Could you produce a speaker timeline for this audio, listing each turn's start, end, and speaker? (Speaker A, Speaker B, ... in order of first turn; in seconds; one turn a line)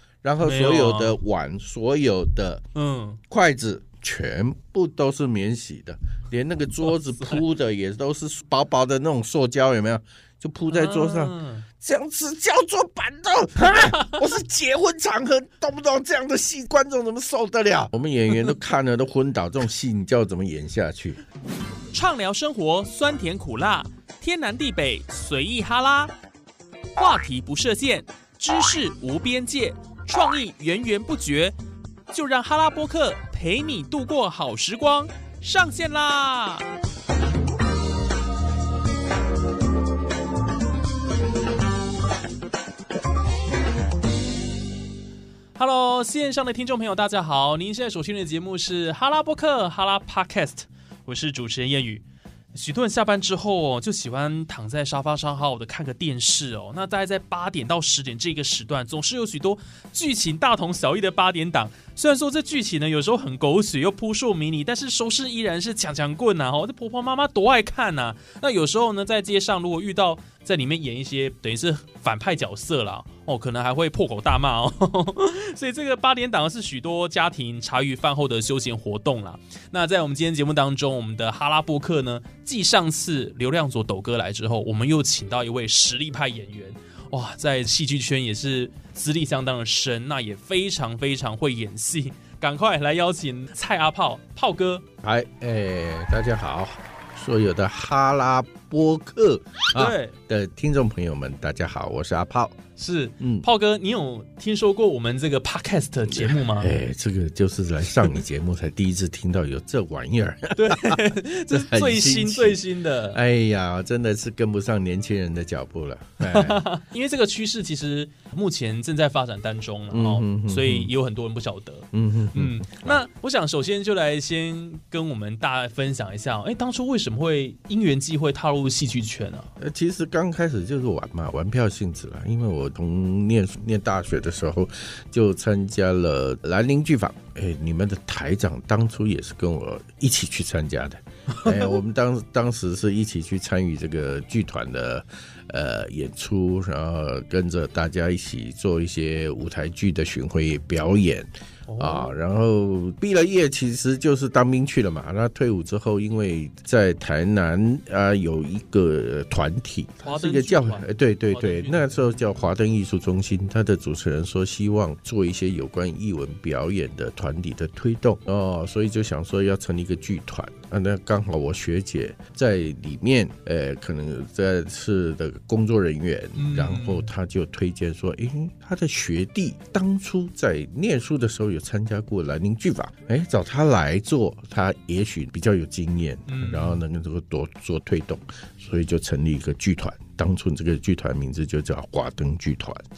Speaker A: 0.2-2.6
Speaker B: 0.4-1.2
Speaker B: 2.7-3.2
Speaker A: 3.3-21.2
Speaker B: 6.9-7.4
Speaker B: 10.7-11.7
Speaker B: 13.7-14.2
Speaker B: 21.9-26.1
Speaker B: 26.9-31.6
Speaker B: 32.1-36.7
Speaker B: 45.5-94.8
Speaker A: 95.0-102.6
Speaker B: 99.7-100.2
Speaker B: 102.8-106.8
Speaker A: 103.2-103.5
Speaker A: 106.1-116.6
Speaker B: 110.6-113.2
Speaker B: 116.2-129.5
Speaker A: 119.9-120.9
Speaker A: 121.9-123.0
Speaker A: 129.6-192.8
Speaker B: 141.3-141.7
Speaker B: 151.7-152.2
Speaker B: 160.0-162.5
Speaker B: 176.3-177.1
Speaker B: 186.3-186.8